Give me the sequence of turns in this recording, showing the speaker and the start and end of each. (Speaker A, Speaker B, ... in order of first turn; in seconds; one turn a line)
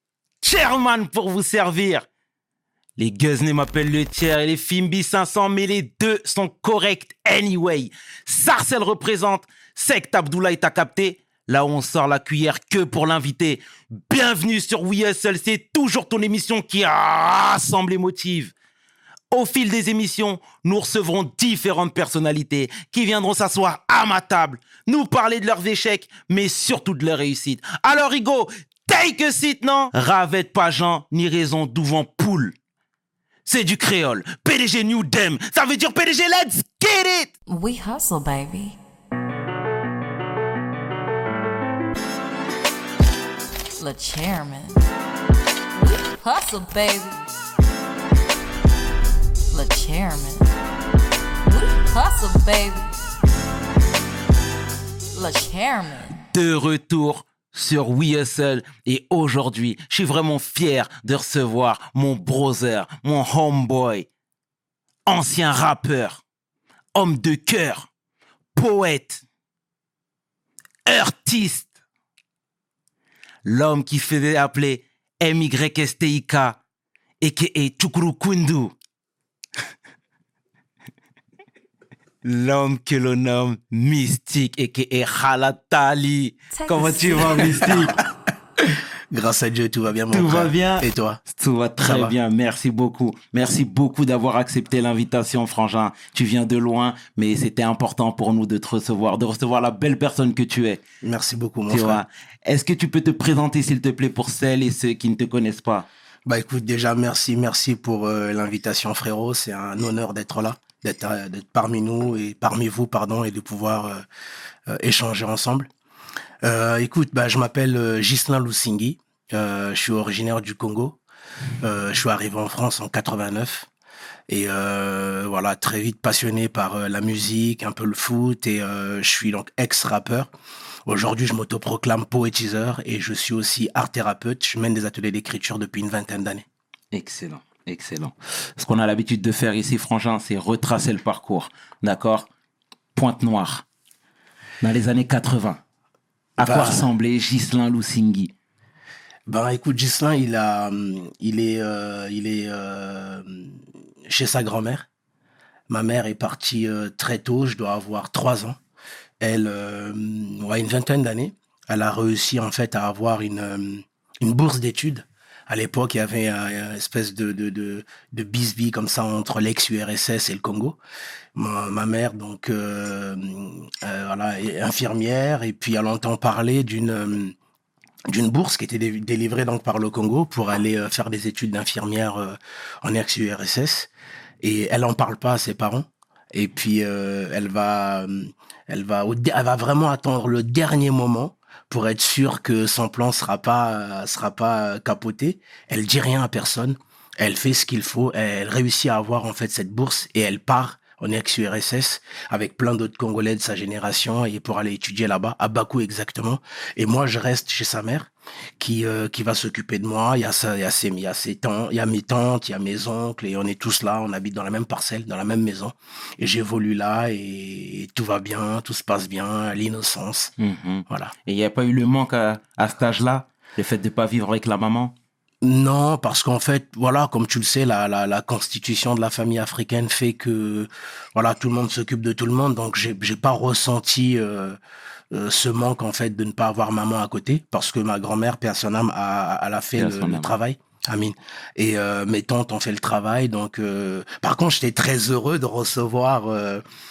Speaker A: 0.4-2.1
Speaker A: 3.0-18.5
Speaker A: 19.3-32.6
Speaker A: 33.5-37.3
Speaker B: 37.5-38.8
Speaker B: 43.8-44.9
Speaker B: 45.8-47.2
Speaker B: 49.5-50.5
Speaker B: 51.4-52.9
Speaker B: 55.1-56.1
Speaker A: 56.2-64.1
Speaker A: 65.1-66.2
Speaker A: 67.0-67.9
Speaker A: 68.5-69.2
Speaker A: 70.9-71.7
Speaker A: 73.5-76.6
Speaker A: 77.2-78.8
Speaker A: 82.2-88.0
Speaker B: 86.6-87.6
Speaker C: 87.6-88.0
Speaker C: 89.1-91.2
Speaker A: 90.1-100.8
Speaker C: 91.8-92.2
Speaker C: 101.0-102.0
Speaker A: 101.7-105.9
Speaker C: 106.3-114.0
Speaker C: 114.7-115.7
Speaker C: 116.4-121.0
Speaker C: 121.6-123.7
Speaker C: 124.3-130.3
Speaker C: 130.9-136.5
Speaker A: 136.9-142.3
Speaker A: 142.9-143.7
Speaker A: 144.6-145.6
Speaker A: 146.4-148.3
Speaker C: 146.4-146.8
Speaker C: 149.3-154.9
Speaker C: 155.7-158.6
Speaker C: 159.2-170.8
Speaker C: 171.3-177.3
Speaker C: 178.1-183.9
Speaker C: 184.4-220.3
Speaker A: 220.4-224.9
Speaker C: 225.4-234.6
Speaker C: 235.1-246.6
Speaker A: 239.8-240.3